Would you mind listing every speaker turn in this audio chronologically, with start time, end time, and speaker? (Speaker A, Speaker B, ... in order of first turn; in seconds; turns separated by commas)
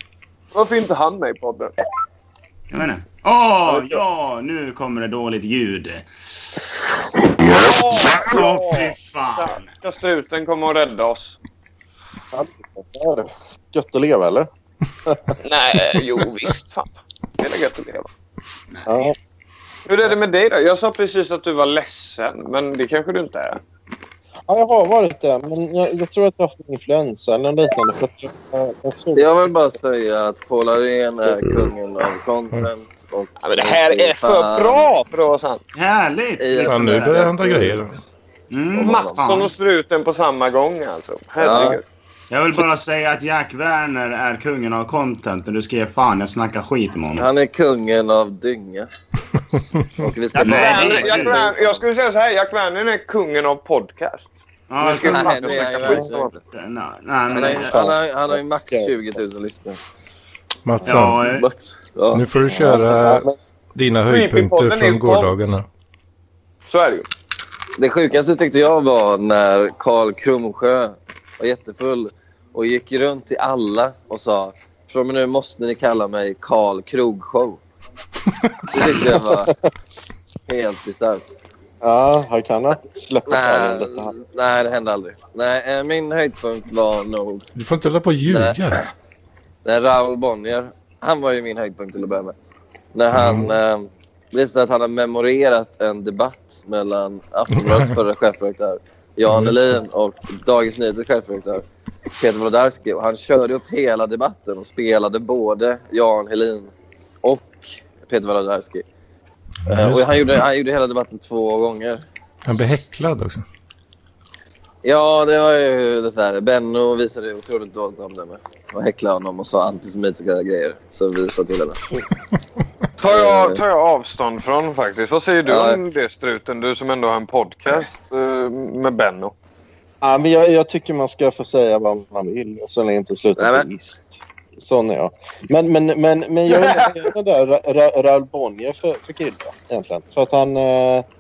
Speaker A: 0.5-1.7, Speaker B: 2.7-6.6, Speaker A: 3.7-4.0, Speaker A: 7.4-11.4, Speaker B: 7.9-9.7, Speaker C: 12.3-14.5, Speaker C: 15.1-15.3, Speaker A: 15.4-18.1, Speaker B: 18.7-19.1, Speaker C: 18.9-19.1, Speaker A: 19.9-23.6, Speaker C: 24.5-29.5, Speaker D: 29.1-34.9, Speaker A: 33.4-35.6, Speaker B: 35.7-37.3, Speaker D: 36.4-37.8, Speaker E: 36.6-38.0, Speaker B: 38.5-39.5, Speaker D: 38.8-39.2, Speaker A: 38.8-41.8, Speaker D: 41.4-41.8, Speaker B: 42.3-47.3, Speaker D: 47.2-48.9, Speaker D: 50.0-51.8, Speaker B: 50.4-51.4, Speaker A: 50.4-56.4, Speaker B: 54.7-57.8, Speaker D: 55.0-56.4, Speaker D: 57.3-59.8, Speaker C: 57.5-59.2, Speaker E: 60.6-61.3, Speaker B: 60.8-61.5, Speaker D: 61.2-62.3, Speaker E: 62.1-65.7, Speaker C: 62.5-63.4, Speaker A: 64.1-65.4, Speaker A: 66.7-67.1, Speaker D: 67.8-77.6, Speaker D: 78.7-79.5, Speaker D: 80.5-81.3, Speaker C: 81.8-84.1, Speaker D: 83.3-87.5, Speaker E: 87.5-88.8, Speaker D: 88.3-88.9, Speaker D: 89.7-92.3, Speaker D: 92.9-101.7, Speaker E: 93.1-93.6, Speaker E: 99.3-99.8, Speaker D: 102.2-106.7, Speaker D: 107.2-108.8, Speaker D: 109.7-112.0, Speaker E: 109.7-110.4, Speaker E: 112.5-113.5, Speaker D: 114.8-121.8, Speaker A: 123.0-129.3, Speaker D: 123.0-123.6, Speaker D: 125.5-125.8, Speaker C: 130.0-141.1, Speaker D: 133.4-133.7, Speaker A: 136.6-136.8